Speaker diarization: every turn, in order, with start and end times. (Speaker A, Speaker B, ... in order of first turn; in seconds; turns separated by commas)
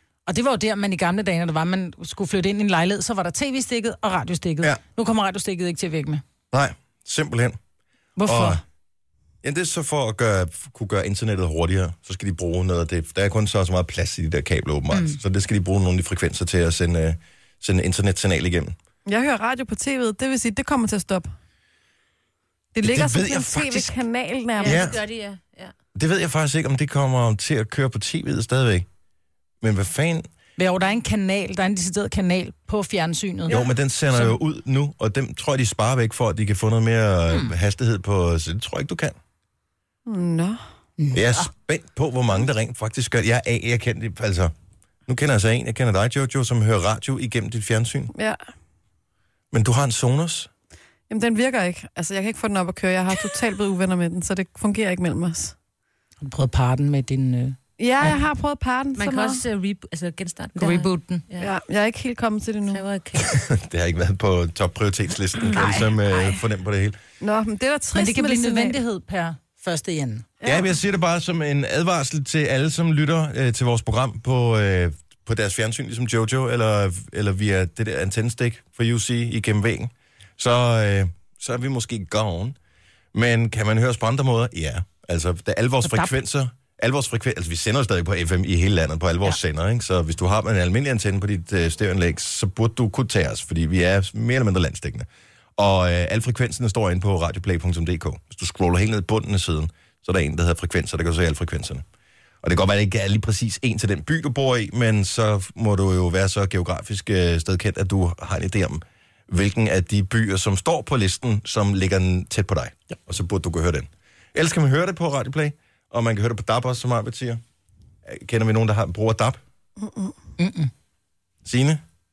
Speaker A: 0.3-6.2, Speaker B: 6.5-7.6, Speaker A: 8.2-8.6, Speaker B: 8.2-8.6, Speaker B: 9.4-18.8, Speaker A: 14.9-15.2, Speaker C: 19.1-21.3, Speaker C: 22.7-24.9, Speaker B: 22.8-24.0, Speaker D: 24.6-25.7, Speaker B: 24.6-25.0, Speaker B: 25.9-28.9, Speaker B: 29.6-30.3, Speaker A: 30.6-33.6, Speaker B: 33.5-39.2, Speaker C: 40.1-40.6, Speaker A: 41.0-41.5, Speaker B: 41.1-44.5, Speaker B: 45.1-48.1, Speaker C: 48.1-48.4, Speaker B: 49.5-50.5, Speaker C: 51.1-55.5, Speaker A: 56.2-58.2, Speaker C: 57.8-59.4, Speaker D: 59.0-61.5, Speaker A: 60.6-61.2, Speaker C: 61.4-62.8, Speaker D: 62.7-63.3, Speaker B: 63.2-67.0, Speaker C: 67.2-68.8, Speaker A: 67.9-70.2, Speaker C: 70.4-70.7, Speaker B: 70.4-82.6, Speaker B: 83.1-101.8, Speaker A: 85.8-86.1, Speaker B: 102.4-117.4, Speaker B: 118.0-119.4, Speaker C: 119.8-120.2, Speaker A: 120.4-120.7, Speaker B: 121.5-121.8